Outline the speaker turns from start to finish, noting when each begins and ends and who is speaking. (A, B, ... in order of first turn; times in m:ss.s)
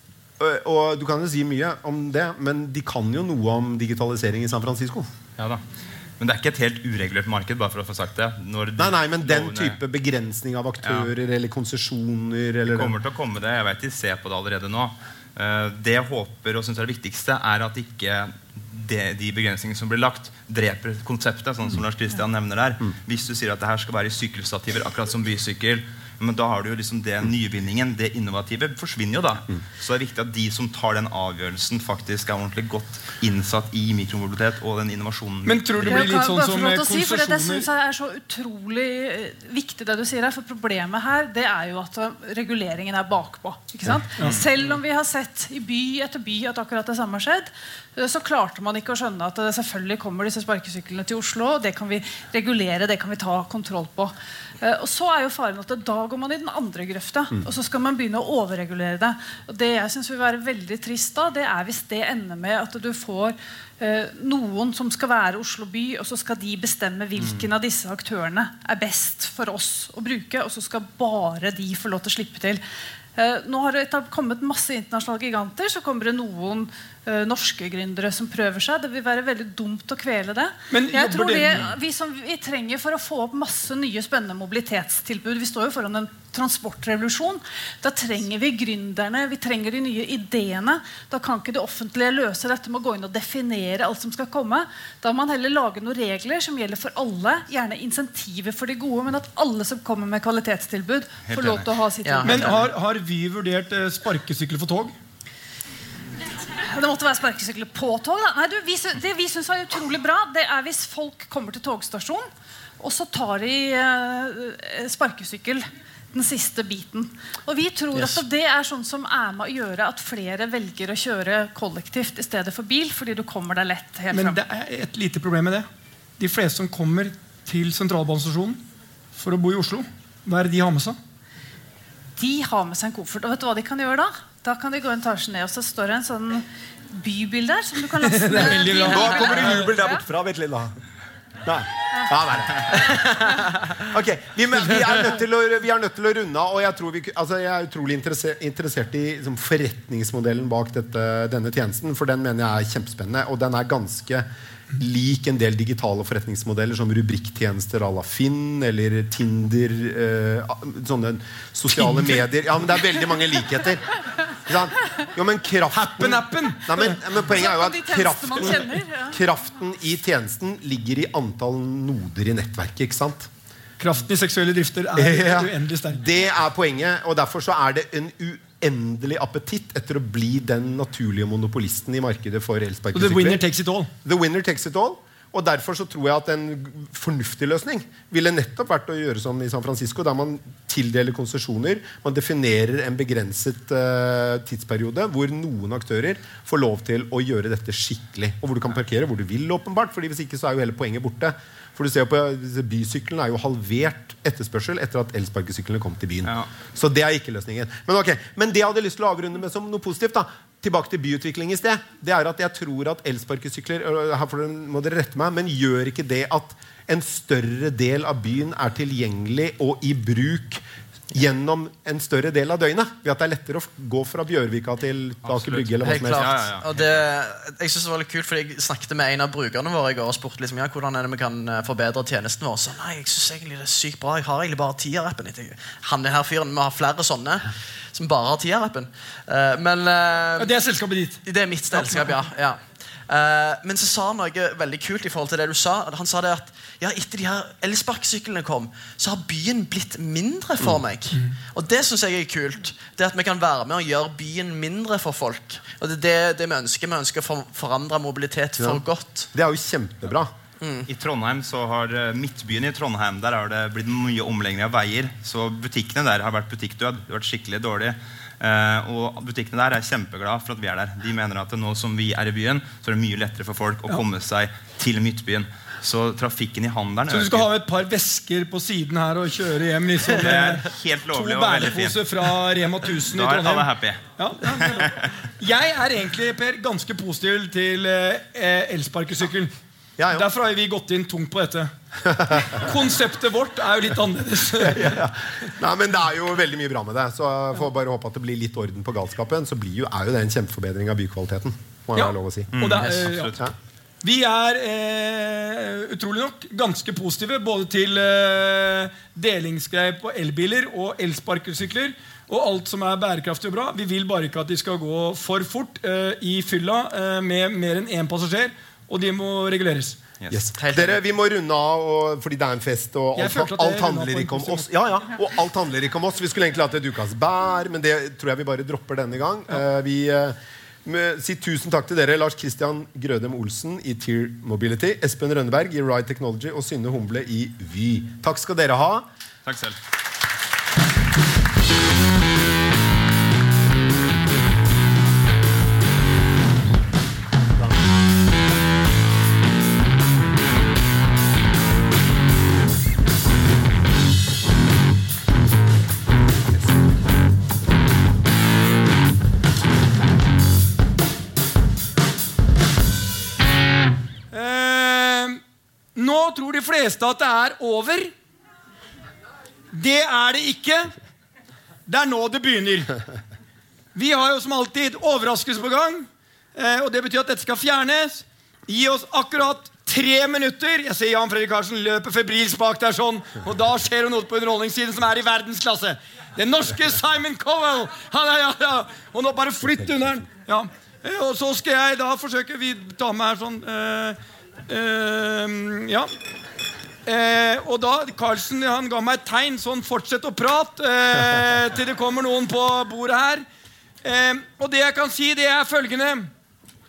0:00.4-0:05.1 A
0:06.2-0:09.8 B
0:08.8-0:13.0 A
0:10.8-0:11.1 B
0:12.6-0:36.2 B
0:35.4-0:37.7 C
0:35.9-1:12.6 D
1:13.2-1:42.6 D
1:20.7-1:21.7 C
1:41.3-1:41.6 B
1:42.0-1:42.6 E
1:42.2-1:44.9 C
1:46.6-1:52.3 D
1:52.8-2:04.4 D
2:04.1-2:05.6 C
2:06.2-2:08.6 C
2:09.1-2:11.0 C
2:12.2-2:20.0 D
2:18.0-2:19.7 C
2:18.8-2:20.8 A
2:21.4-2:23.1 A
2:23.1-2:23.4 E
2:23.8-2:34.2 A
2:34.8-2:53.3 A
2:41.7-2:42.2 C
2:45.7-2:47.0 C
2:47.2-2:49.2 D
2:53.8-2:56.0 C
2:55.0-3:03.4 A
3:02.9-3:03.9 C
3:04.0-3:46.3 A
3:45.2-3:47.0 B
3:45.8-4:00.5 E
4:00.4-4:01.2 C
4:01.2-4:19.3 E
4:01.7-4:02.1 C
4:18.6-4:20.3 A
4:20.6-4:20.9 E
4:20.9-4:37.5 B
4:37.1-4:49.5 C
4:40.1-4:42.2 B
4:43.0-4:44.0 B
4:44.5-4:45.0 B
4:50.0-4:50.3 A
4:50.1-4:51.7 C
4:52.0-4:52.6 A
4:52.3-4:55.0 C
4:54.6-5:02.5 A
5:02.0-5:03.4 C
5:02.5-5:03.4 B
5:02.7-5:03.1 E
5:04.0-5:20.0 C
5:20.3-5:39.1 A
5:20.6-5:21.0 E
5:23.2-5:24.7 C
5:39.4-5:39.8 B
6:04.3-6:05.4 C
6:05.9-6:08.1 C
6:09.7-6:10.9 C
6:11.8-6:13.0 C
6:13.9-6:36.1 C
6:37.0-6:43.4 C
6:44.0-6:46.3 C